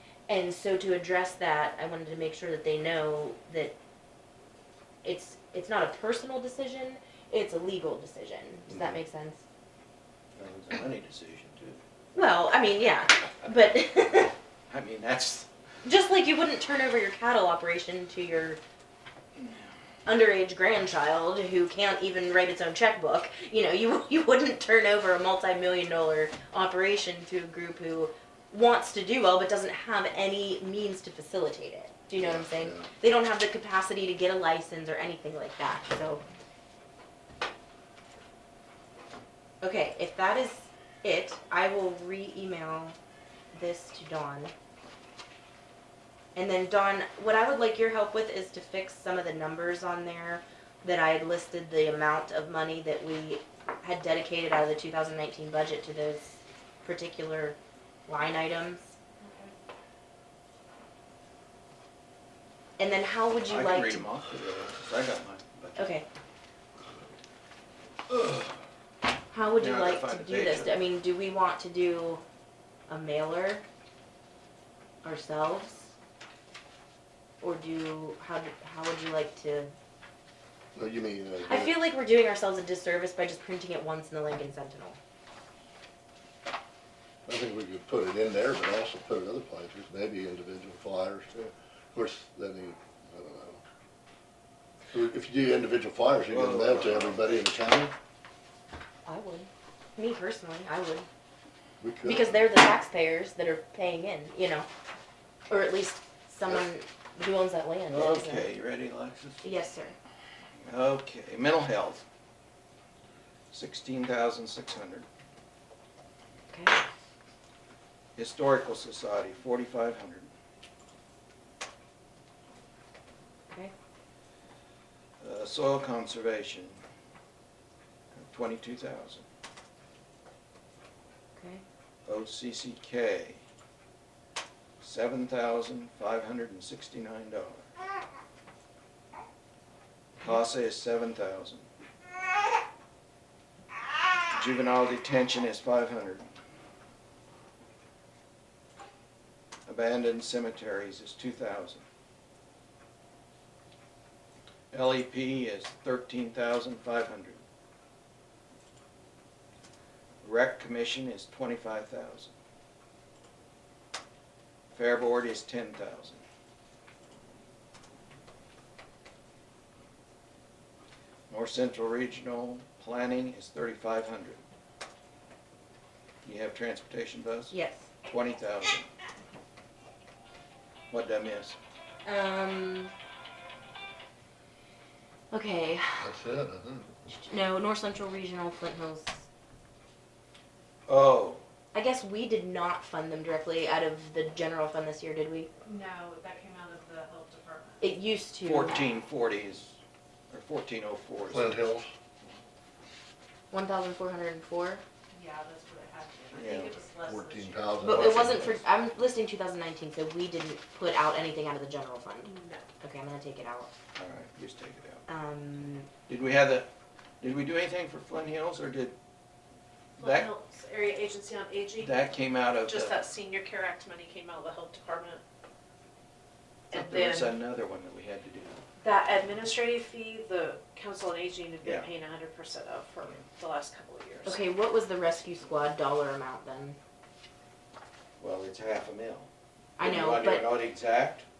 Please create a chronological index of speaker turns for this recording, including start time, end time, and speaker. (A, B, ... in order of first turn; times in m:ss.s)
0:00.3-0:03.8 A
0:05.0-0:09.4 A
0:10.4-0:11.8 B
0:12.1-0:14.4 A
0:14.7-0:15.5 B
0:15.8-0:18.6 A
0:20.1-0:36.2 A
0:32.2-0:32.9 C
0:39.6-0:43.0 A
0:43.5-0:44.5 A
0:46.4-0:58.9 A
0:59.2-0:59.5 D
1:02.8-1:04.0 A
1:03.5-1:06.0 B
1:05.8-1:06.1 A
1:08.1-1:08.6 B
1:09.3-1:12.2 A
1:09.5-1:10.8 B
1:12.9-1:13.6 A
1:15.0-1:15.9 A
1:17.4-1:19.7 A
1:20.8-1:21.8 C
1:21.5-1:25.0 A
1:27.3-1:33.6 C
1:34.9-1:37.9 C
1:36.3-1:37.4 B
1:39.1-1:41.1 A
1:41.8-1:42.5 C
1:42.0-1:44.7 A
1:45.5-1:48.5 A
1:47.9-1:49.4 B
1:49.4-1:50.0 A
1:50.6-1:52.0 B
1:53.5-1:55.1 B
1:56.5-1:56.8 A
1:58.2-2:00.3 B
2:05.2-2:06.8 B
2:08.2-2:09.3 B
2:11.4-2:11.6 A
2:12.1-2:13.4 B
2:14.8-2:17.7 B
2:20.2-2:21.7 B
2:24.3-2:26.2 B
2:29.7-2:31.8 B
2:34.7-2:37.4 B
2:40.2-2:42.3 B
2:44.7-2:46.2 B
2:51.3-2:54.4 B
2:56.2-2:57.5 B
2:57.5-2:57.9 A
2:58.0-2:58.9 B
3:00.9-3:01.6 B
3:02.0-3:02.9 A
3:05.3-3:06.1 A
3:06.0-3:07.0 C
3:07.1-3:09.2 A
3:10.9-3:11.4 B
3:11.7-3:15.5 A
3:15.6-3:17.9 D
3:17.8-3:19.0 A
3:18.4-3:21.6 B
3:21.3-3:21.9 C
3:23.5-3:24.8 A
3:25.1-3:28.1 D
3:26.3-3:26.8 B
3:27.0-3:28.6 C
3:27.8-3:33.7 A
3:32.2-3:32.6 D
3:34.0-3:35.0 B
3:35.1-3:35.9 A
3:36.1-3:36.7 B
3:37.2-3:39.0 B
3:40.0-3:42.0 D
3:40.0-3:40.3 B
3:41.8-3:43.0 B
3:42.7-3:45.2 D
3:46.7-3:47.4 D
3:46.7-3:48.6 B
3:48.8-3:54.4 D
3:51.6-3:51.9 B
3:54.2-3:56.8 A
3:58.2-3:59.3 B
3:59.8-4:00.5 A
3:59.8-4:01.3 B